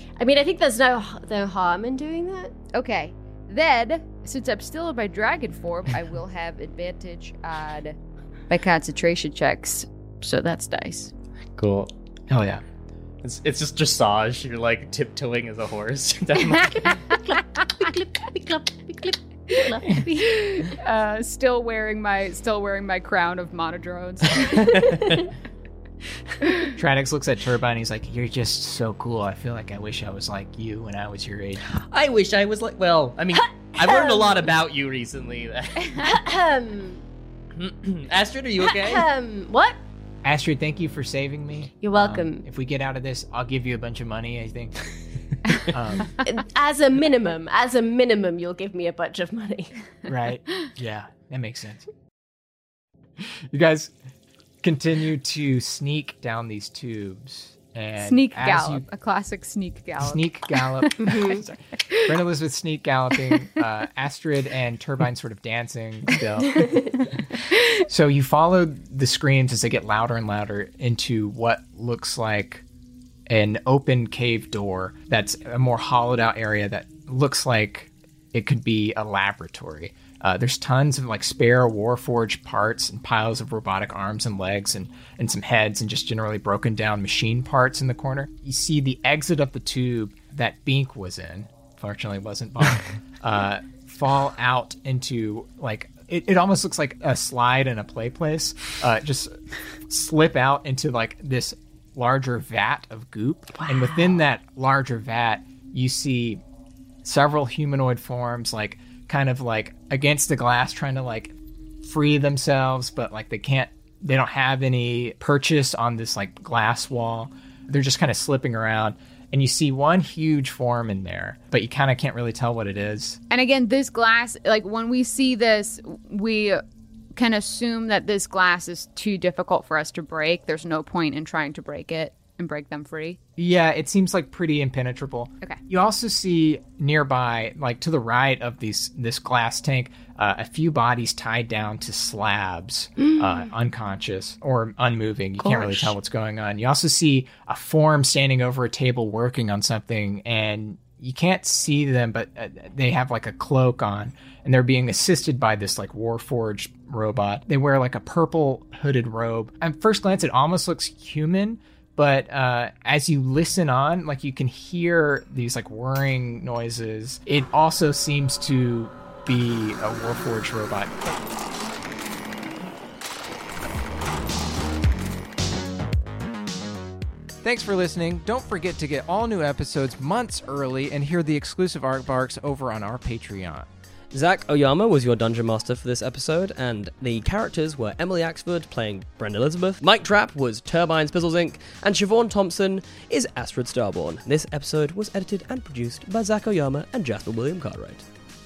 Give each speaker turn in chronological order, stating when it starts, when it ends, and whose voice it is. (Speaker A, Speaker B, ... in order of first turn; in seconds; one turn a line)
Speaker A: 0.2-2.5
Speaker B: 2.7-8.0
Speaker B: 8.5-11.1
Speaker C: 11.6-11.9
Speaker D: 12.3-12.6
Speaker C: 13.2-17.0
Speaker A: 17.1-20.0
Speaker B: 19.9-24.8
Speaker C: 24.4-25.2
Speaker D: 26.8-31.6
Speaker C: 31.7-36.2
Speaker A: 33.8-34.4
Speaker A: 36.0-37.0
Speaker C: 37.5-39.1
Speaker A: 38.7-39.8
Speaker D: 40.2-44.9
Speaker A: 41.8-42.5
Speaker D: 45.7-46.1
Speaker A: 46.2-49.7
Speaker D: 50.1-51.9
Speaker D: 53.2-53.9
Speaker D: 54.6-58.9
Speaker B: 58.0-61.1
Speaker D: 60.0-66.7
Speaker A: 61.0-61.4
Speaker A: 66.6-66.9
Speaker D: 67.8-72.7
Speaker D: 73.3-99.3
Speaker D: 99.9-106.4
Speaker D: 107.0-123.2
Speaker B: 123.3-126.6
Speaker B: 127.2-133.2
Speaker D: 133.4-171.2
Speaker D: 177.4-183.7
Speaker E: 184.1-198.1